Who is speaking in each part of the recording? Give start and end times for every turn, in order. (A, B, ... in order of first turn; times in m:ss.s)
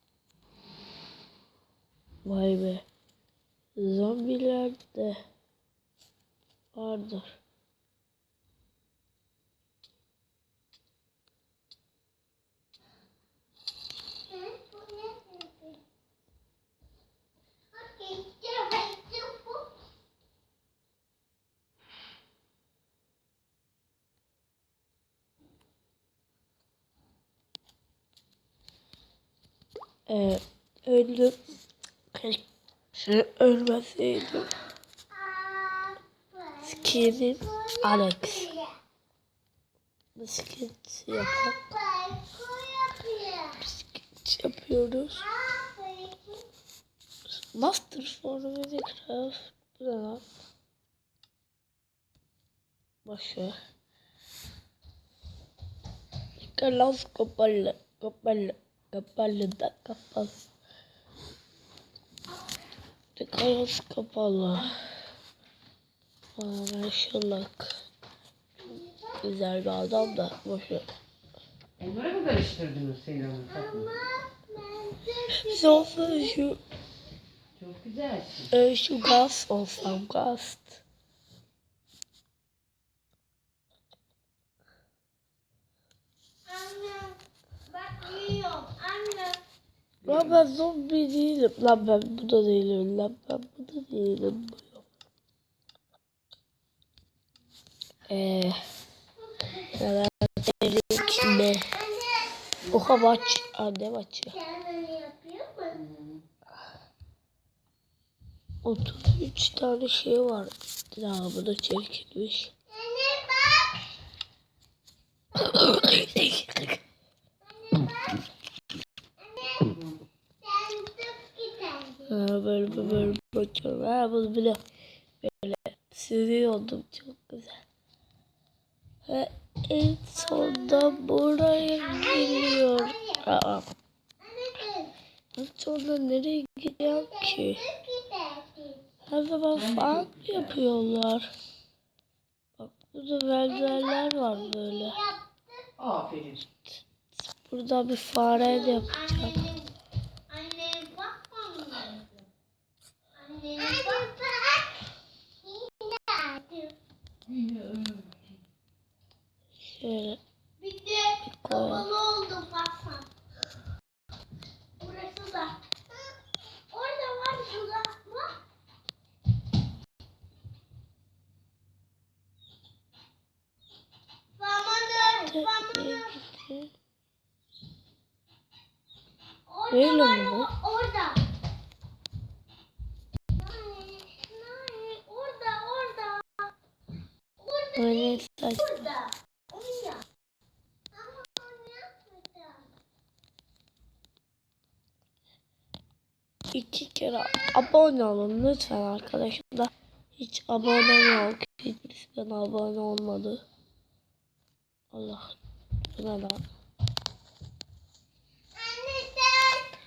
0:02.2-0:02.8 A
0:03.8-0:05.2 A
0:06.7-0:07.3 A
0:14.3-0:15.8 B
0:17.7-0:19.8 B
0:30.1-0:31.6 A
0:32.1-0:32.4 A
0:32.9-0:34.5 A
0:35.1-0:38.7 B
0:36.6-0:38.5 A
0:40.2-0:41.6 A
0:41.1-0:43.6 B
0:43.6-0:45.2 A
0:45.1-0:46.5 B
0:47.5-0:50.2 A
0:53.0-0:53.5 A
0:56.4-1:00.4 A
1:03.2-1:04.7 A
1:06.4-1:07.7 A
1:08.6-1:09.3 B
1:09.2-1:10.9 A
1:09.9-1:10.1 B
1:11.8-1:13.9 C
1:13.4-1:16.4 B
1:15.4-1:16.6 A
1:17.6-1:18.5 C
1:18.5-1:20.8 A
1:26.4-1:29.4 B
1:30.0-1:30.4 C
1:30.0-1:34.9 A
1:38.1-1:38.6 A
1:39.2-1:39.7 B
1:39.7-1:41.7 A
1:41.0-1:43.5 B
1:42.7-1:44.4 A
1:44.3-1:46.0 B
1:48.6-1:52.5 A
1:52.7-1:54.0 B
1:55.3-1:56.8 A
1:57.4-1:58.3 B
1:59.2-1:59.8 B
2:00.4-2:02.1 B
2:02.1-2:04.6 A
2:05.2-2:07.6 A
2:09.0-2:13.6 A
2:10.2-2:13.2 B
2:14.2-2:14.9 B
2:15.4-2:17.6 A
2:16.8-2:18.8 B
2:19.0-2:21.3 A
2:19.5-2:20.6 C
2:22.6-2:25.0 A
2:23.5-2:25.7 B
2:25.8-2:26.4 C
2:26.7-2:29.4 A
2:28.3-2:29.7 B
2:30.3-2:32.2 B
2:33.2-2:36.7 B
2:37.3-2:38.0 C
2:39.6-2:40.2 A
2:40.6-2:43.1 B
2:41.4-2:41.8 A
2:44.8-2:45.6 B
2:46.7-2:48.4 B
2:54.4-2:56.2 B
2:55.2-2:56.7 A
2:59.5-3:01.3 B
2:59.7-3:00.5 A
3:03.3-3:06.5 B
3:07.4-3:10.0 B
3:07.8-3:08.7 A
3:10.9-3:12.7 B
3:16.5-3:23.4 A
3:20.6-3:21.3 B
3:24.9-3:25.4 A
3:25.9-3:26.4 A
3:28.5-3:29.8 B